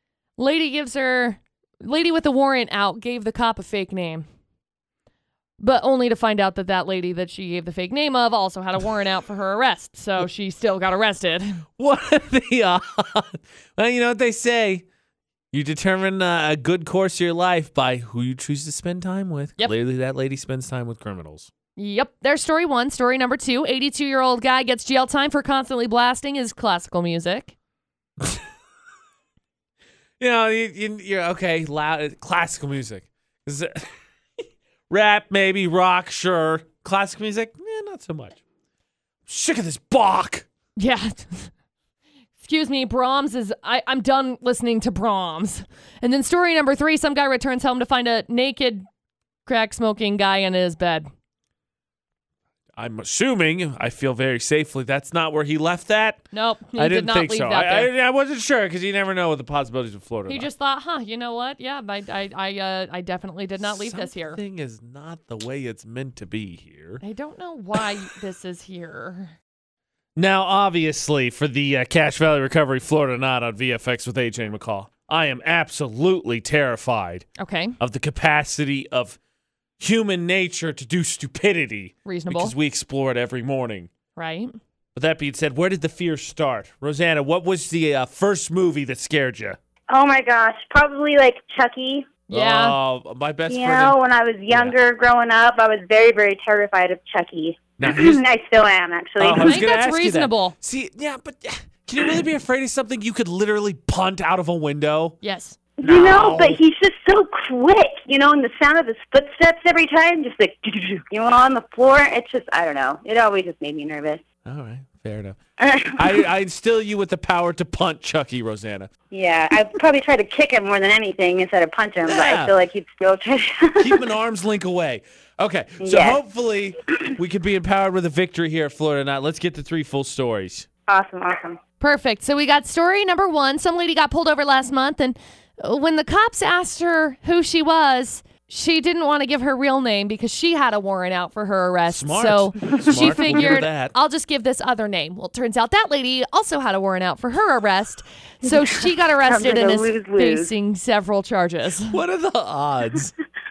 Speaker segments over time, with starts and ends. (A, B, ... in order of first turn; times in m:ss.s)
0:00.4-0:04.2 A
0:05.6-0:11.6 A
0:11.8-0:14.8 B
0:15.5-0:21.5 B
0:21.8-0:27.5 A
0:30.2-0:33.8 B
0:34.9-0:38.4 B
0:39.2-0:40.5 B
0:40.8-0:41.5 A
0:42.4-0:48.8 A
0:49.4-0:51.1 A
0:52.8-0:56.2 B
0:56.3-0:57.9 A
0:56.8-1:00.5 B
1:00.3-1:04.4 A
1:03.6-1:07.0 B
1:07.0-1:09.3 A
1:10.2-1:17.2 B
1:17.4-1:17.8 A
1:17.8-1:19.2 B
1:19.8-1:23.9 B
1:22.0-1:22.5 A
1:24.2-1:24.5 A
1:24.9-1:29.6 B
1:29.9-1:32.1 C
1:32.3-1:32.7 A
1:32.3-1:34.0 B
1:33.5-1:39.6 C
1:34.5-1:34.8 B
1:37.8-1:38.2 B
1:39.2-1:45.2 B
1:39.4-1:40.6 A
1:45.2-1:45.6 A
1:45.8-1:54.2 C
1:45.8-1:46.6 B
1:54.4-1:55.4 B
1:55.6-1:56.2 C
1:55.9-1:58.9 B
1:59.1-2:04.0 C
2:02.0-2:02.5 B
2:03.8-2:10.7 B
2:05.8-2:06.2 C
2:10.9-2:11.6 C
2:11.8-2:32.0 A
2:21.9-2:23.9 B
2:28.4-2:30.5 C
2:31.9-2:33.1 B